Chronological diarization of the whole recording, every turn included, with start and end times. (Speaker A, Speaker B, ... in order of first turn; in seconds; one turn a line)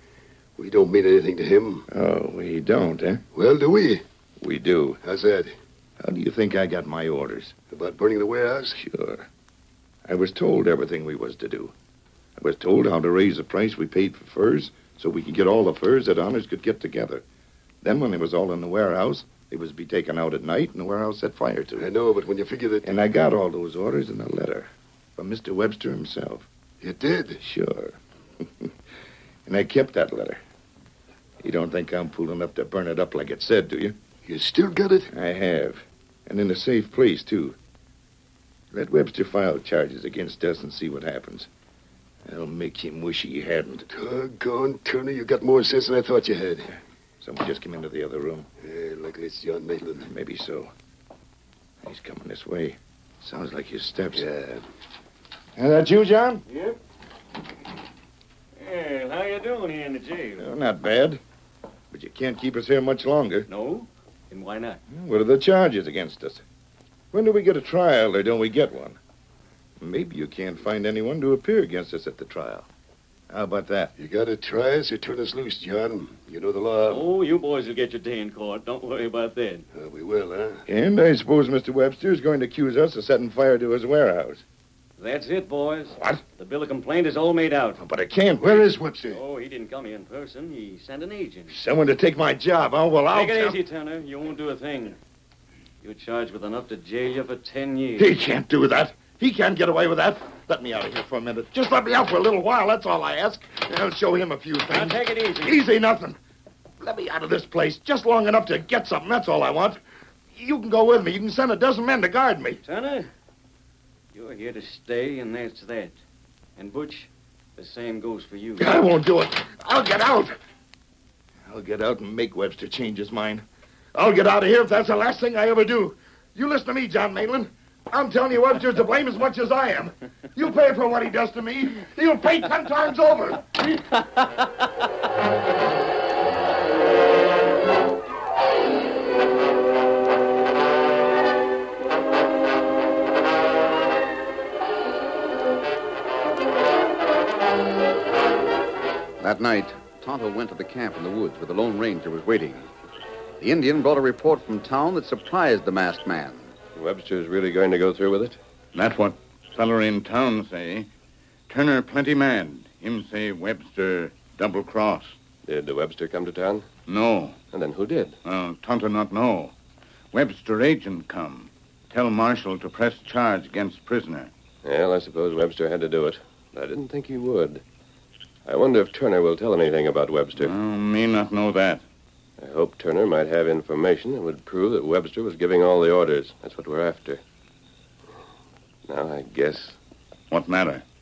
Speaker A: 0.6-1.9
Speaker B: 1.9-3.2
Speaker A: 3.4-4.0
Speaker B: 4.4-5.0
Speaker A: 5.0-5.5
Speaker B: 6.0-7.5
Speaker A: 7.7-8.8
Speaker B: 8.7-9.3
Speaker B: 10.1-11.7
Speaker B: 12.4-17.2
Speaker B: 17.8-21.9
Speaker A: 21.8-22.9
Speaker B: 22.8-26.5
Speaker A: 26.8-27.4
Speaker B: 27.4-28.0
Speaker B: 29.5-30.4
Speaker B: 31.4-34.0
Speaker A: 34.2-35.1
Speaker B: 35.1-37.6
Speaker B: 38.7-41.5
Speaker B: 42.2-43.9
Speaker A: 43.9-46.7
Speaker B: 47.2-48.5
Speaker A: 48.6-50.1
Speaker B: 50.0-50.7
Speaker B: 51.8-54.2
Speaker A: 54.1-54.6
Speaker B: 55.6-56.4
Speaker C: 56.5-56.8
Speaker C: 58.6-60.5
Speaker B: 60.4-61.2
Speaker B: 61.9-63.5
Speaker C: 63.5-64.8
Speaker B: 64.9-66.4
Speaker B: 67.1-69.0
Speaker B: 69.8-72.7
Speaker B: 73.3-73.9
Speaker A: 74.0-77.1
Speaker C: 76.9-79.7
Speaker A: 79.8-80.6
Speaker B: 80.7-84.4
Speaker C: 85.0-87.8
Speaker B: 86.0-86.2
Speaker B: 87.8-88.8
Speaker A: 88.4-89.2
Speaker C: 89.1-91.6
Speaker B: 91.5-93.6
Speaker C: 93.1-95.0
Speaker C: 95.8-98.1
Speaker B: 98.0-106.2
Speaker C: 104.7-105.6
Speaker B: 106.8-109.8
Speaker B: 110.3-112.6
Speaker C: 112.6-113.1
Speaker C: 114.1-116.0
Speaker C: 116.6-118.8
Speaker B: 118.6-120.4
Speaker B: 121.5-133.8
Speaker D: 149.2-152.7
Speaker D: 153.4-156.5
Speaker E: 156.8-158.4
Speaker F: 158.7-160.9
Speaker F: 161.5-165.1
Speaker E: 165.5-166.7
Speaker F: 166.9-167.3
Speaker E: 167.5-168.2
Speaker F: 168.2-169.5
Speaker F: 170.1-174.3
Speaker E: 174.6-177.6
Speaker E: 178.5-180.5
Speaker F: 180.4-181.8
Speaker E: 182.4-187.2
Speaker E: 188.9-189.8
Speaker F: 190.3-190.8